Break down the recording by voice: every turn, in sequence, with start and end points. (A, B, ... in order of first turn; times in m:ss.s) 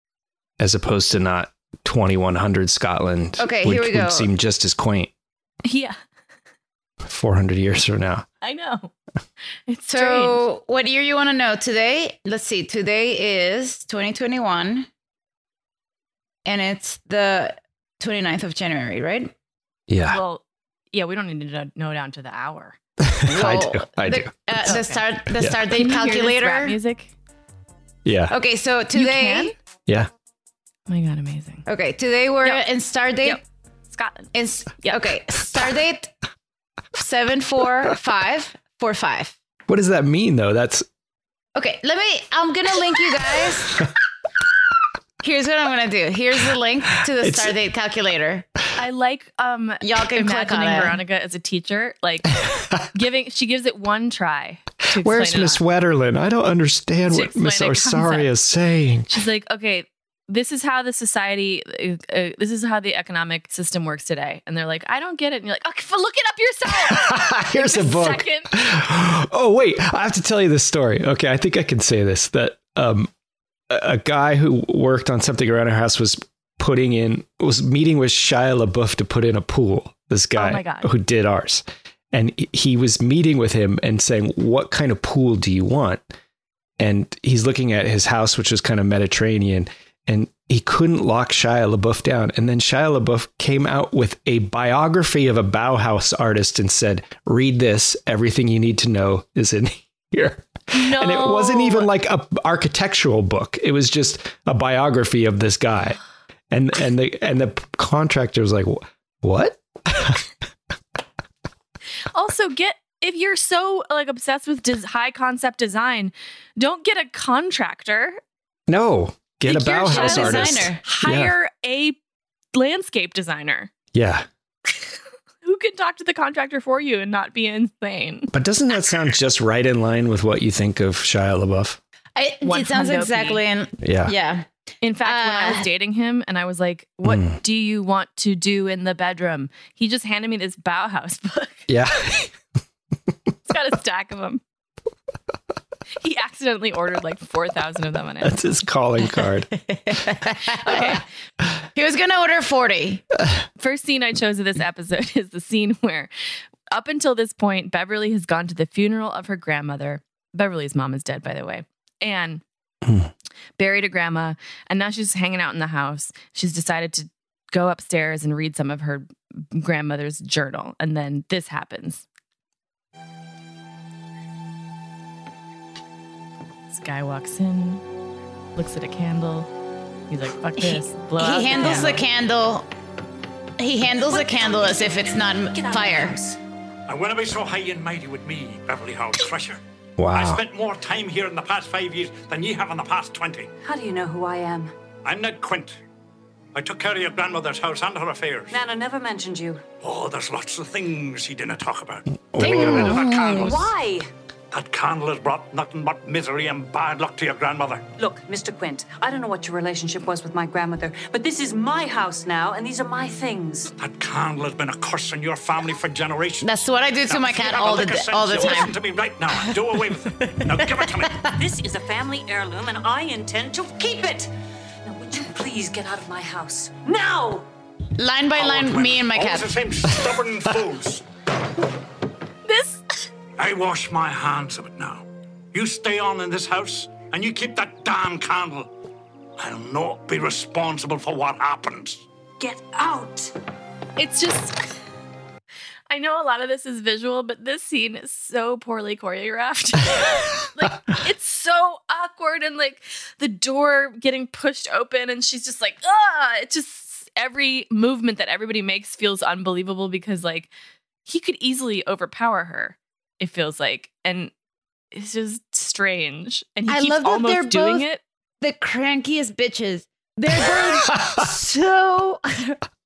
0:00.6-0:05.1 A
0:03.4-0:04.3 B
0:05.6-0:06.0 C
0:07.0-0:08.3 A
0:08.4-0:08.9 C
0:09.7-0:10.5 C
0:09.9-0:14.9 B
0:16.5-0:19.3 B
0:19.9-0:20.2 A
0:20.1-0:22.8 C
0:23.0-0:24.7 A
0:23.3-0:26.8 B
0:24.7-0:25.0 C
0:25.7-0:27.1 C
0:28.0-0:28.4 A
0:28.3-0:29.5 B
0:28.9-0:29.5 C
0:30.9-0:31.6 C
0:31.7-0:33.4 B
0:33.2-0:35.0 C
0:34.3-0:36.1 B
0:37.0-0:39.4 B
0:39.7-0:40.9 A
0:41.6-0:43.9 B
0:45.2-0:48.5 B
0:47.2-0:47.6 A
0:48.8-0:55.6 C
0:49.8-0:51.0 B
0:54.9-0:59.1 A
0:57.1-0:58.3 C
0:59.1-1:08.5 C
1:06.7-1:13.1 A
1:13.7-1:26.0 A
1:20.4-1:20.9 C
1:26.8-1:46.0 A
1:40.7-1:41.9 C
1:46.5-1:50.2 A
1:52.1-1:58.2 C
1:58.7-2:01.3 A
1:59.5-2:02.0 C
1:59.8-2:00.8 B
2:02.5-2:03.7 C
2:03.9-2:04.3 A
2:05.4-2:08.3 C
2:08.3-2:11.8 A
2:12.2-2:14.4 B
2:12.4-2:13.4 C
2:13.8-2:14.1 A
2:14.8-2:21.7 C
2:15.0-2:15.7 B
2:17.0-2:17.4 A
2:21.7-2:22.3 A
2:23.5-2:24.4 C
2:26.0-2:28.4 C
2:28.2-2:29.5 A
2:29.6-2:31.0 B
2:30.6-2:31.0 C
2:31.8-2:33.0 B
2:33.6-2:36.1 C
2:36.7-2:42.4 C
2:42.8-2:43.1 A
2:43.6-2:52.0 C
2:56.7-2:57.8 C
2:58.6-2:59.5 C
3:00.1-3:02.0 C
3:00.6-3:02.7 B
3:03.6-3:06.2 B
3:04.1-3:06.4 D
3:06.9-3:09.6 E
3:10.0-3:10.4 A
3:10.1-3:13.5 E
3:13.6-3:14.7 D
3:15.0-3:15.8 E
3:16.6-3:18.6 E
3:18.5-3:19.7 D
3:19.8-3:23.8 E
3:22.3-3:23.0 A
3:22.6-3:23.4 B
3:22.6-3:24.1 D
3:24.5-3:27.9 E
3:28.0-3:33.7 D
3:33.8-3:41.3 E
3:36.4-3:38.8 B
3:40.2-3:41.1 B
3:41.3-3:44.3 D
3:44.8-3:47.5 D
3:48.0-3:49.6 B
3:48.4-3:51.0 E
3:52.5-3:52.8 C
3:53.4-3:58.7 E
3:59.4-4:02.0 E
4:02.4-4:03.3 D
4:04.0-4:04.6 C
4:05.9-4:20.5 C
4:21.0-4:24.3 C
4:24.9-4:28.0 C
4:26.7-4:27.8 B
4:28.4-4:32.6 B